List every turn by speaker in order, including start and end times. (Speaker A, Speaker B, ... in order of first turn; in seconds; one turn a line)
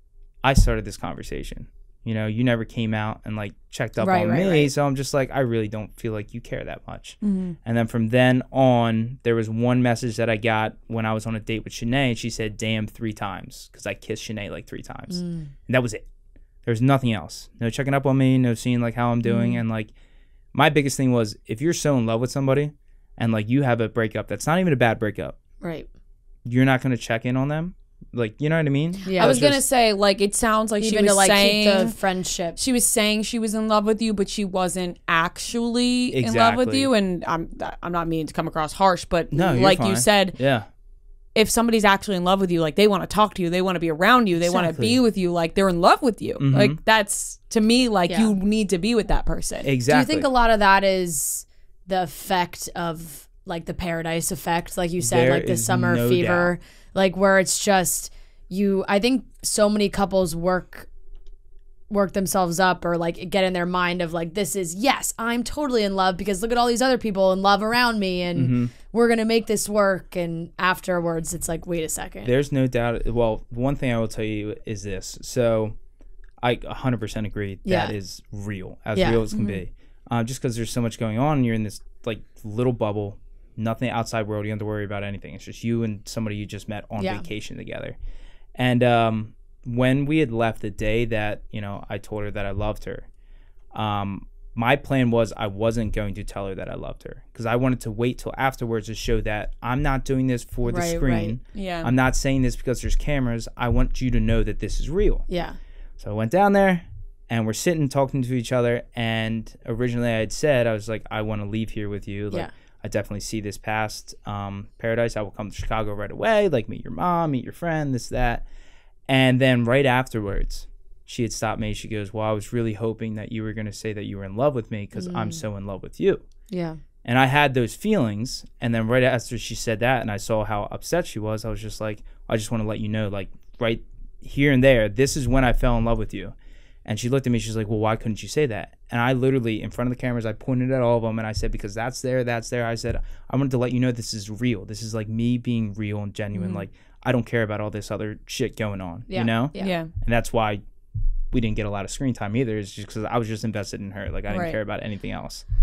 Speaker A: 0.4-16.1
Speaker B: 4.0-4.7
Speaker C: 7.2-7.5
Speaker B: 15.1-15.5
Speaker A: 16.6-19.9
Speaker A: 20.5-25.4
Speaker B: 25.6-25.9
Speaker A: 26.4-29.6
Speaker B: 29.1-29.4
Speaker C: 29.1-31.9
Speaker B: 30.8-32.6
Speaker C: 32.5-40.3
Speaker A: 36.1-36.9
Speaker A: 39.3-40.7
Speaker C: 41.3-49.7
Speaker A: 44.4-45.0
Speaker A: 46.4-46.8
Speaker A: 49.6-50.3
Speaker B: 49.9-60.9
Speaker A: 55.0-56.5
Speaker B: 61.9-72.3
Speaker A: 68.3-68.7
Speaker A: 72.2-75.8
Speaker A: 76.4-88.0
Speaker B: 77.6-77.9
Speaker B: 78.9-79.2
Speaker C: 79.3-79.6
Speaker B: 87.0-87.3
Speaker A: 88.5-93.1
Speaker A: 93.7-105.2
Speaker B: 100.6-101.3
Speaker C: 101.5-101.9
Speaker B: 105.3-105.6
Speaker A: 106.0-118.4
Speaker A: 119.1-126.2
Speaker B: 125.0-125.4
Speaker B: 126.5-126.8
Speaker A: 127.0-150.6
Speaker C: 146.3-146.6
Speaker B: 149.1-149.8
Speaker C: 149.6-149.9
Speaker A: 151.3-155.4
Speaker B: 154.3-154.6